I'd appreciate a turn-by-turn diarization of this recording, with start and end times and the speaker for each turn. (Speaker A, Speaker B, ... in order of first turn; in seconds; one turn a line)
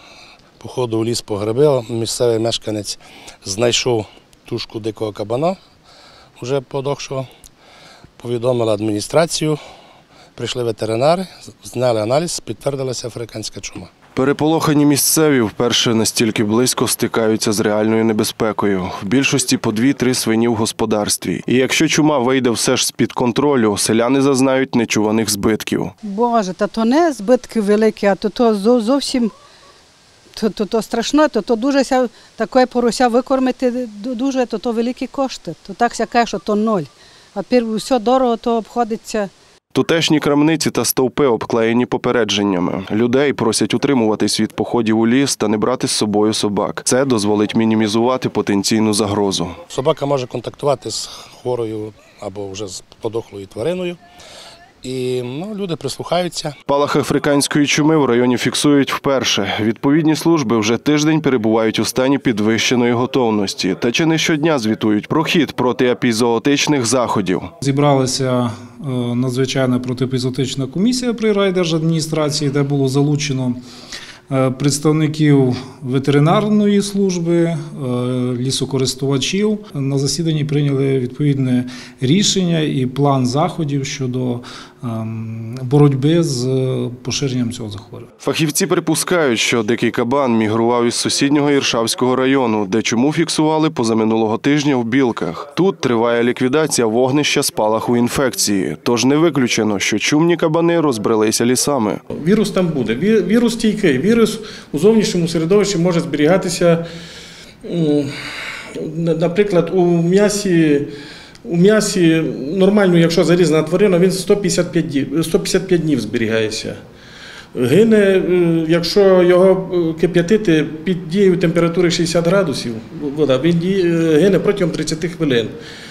Speaker A: 0.6-5.5
Speaker A: 6.4-7.2
Speaker A: 8.2-9.6
Speaker A: 10.4-13.9
Speaker B: 14.1-25.9
Speaker C: 26.0-29.3
Speaker C: 30.4-39.3
Speaker B: 39.7-49.6
Speaker A: 49.7-54.0
Speaker A: 54.8-56.5
Speaker B: 56.7-67.5
Speaker D: 67.6-73.6
Speaker D: 74.3-88.1
Speaker B: 88.2-102.0
Speaker E: 102.1-106.8
Speaker E: 107.6-108.1
Speaker E: 108.8-110.9
Speaker E: 111.5-116.8
Speaker E: 117.5-125.5